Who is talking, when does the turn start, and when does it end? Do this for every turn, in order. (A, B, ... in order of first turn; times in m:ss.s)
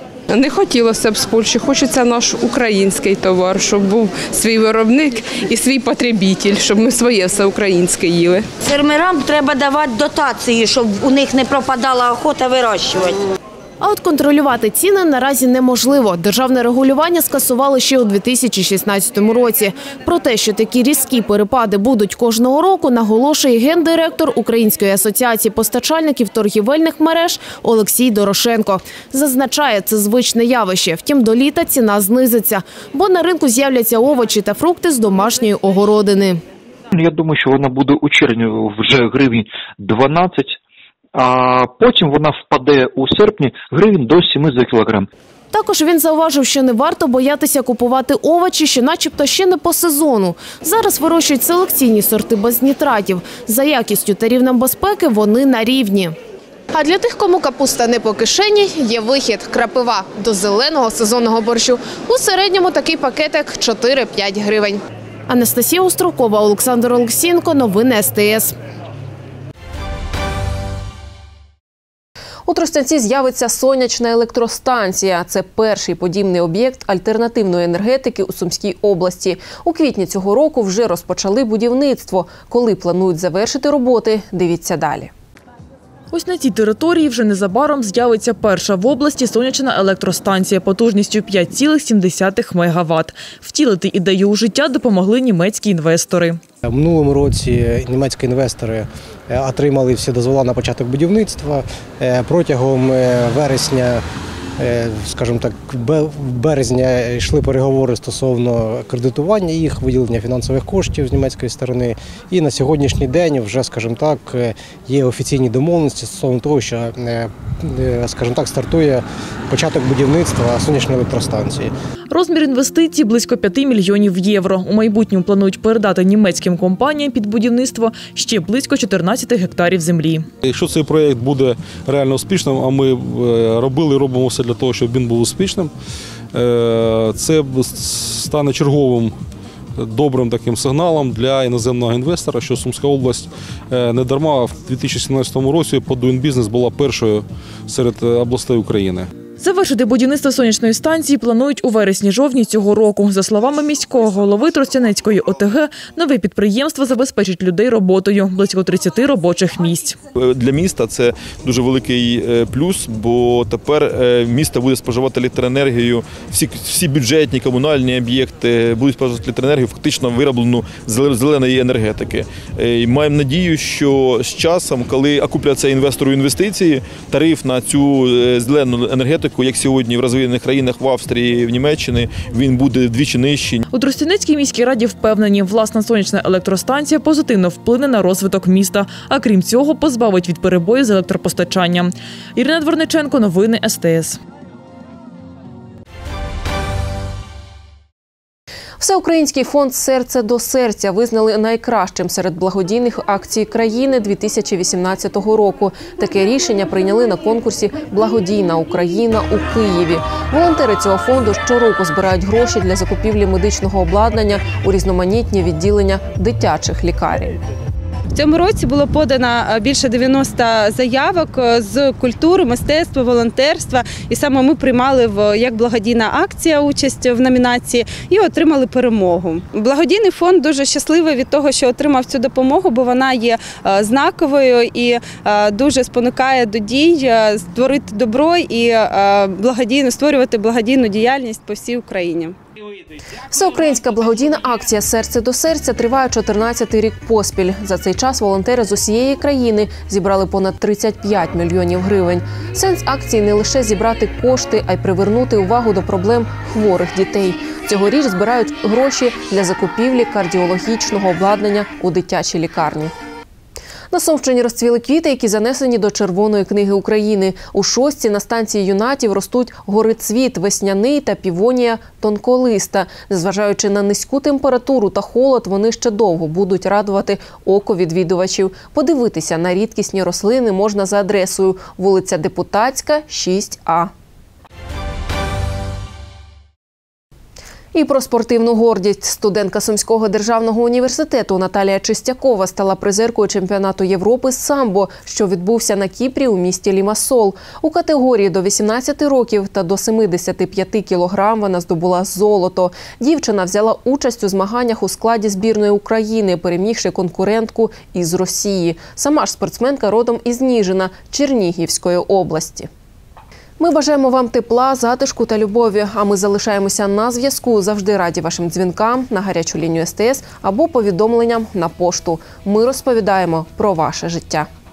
0:00.3-0:08.4 A
0:08.6-0:13.1 B
0:13.8-0:36.4 C
0:36.9-0:40.6 D
0:41.1-0:45.1 D
0:45.5-0:56.2 C
0:56.7-1:08.5 C
1:12.4-1:25.1 E
1:26.1-1:36.4 F
1:36.6-1:44.0 G
1:44.6-2:01.7 G
2:02.1-2:10.2 F
2:10.4-2:15.7 H
2:16.3-2:19.1 H
2:19.8-2:29.1 H
2:29.4-2:40.0 F
2:40.1-3:03.6 I
3:03.7-3:14.2 F
3:18.8-3:37.4 E
3:38.1-4:02.3 J
4:03.3-4:22.9 E
4:23.9-4:43.9 E
4:47.7-5:12.7 E
5:13.6-5:24.5 E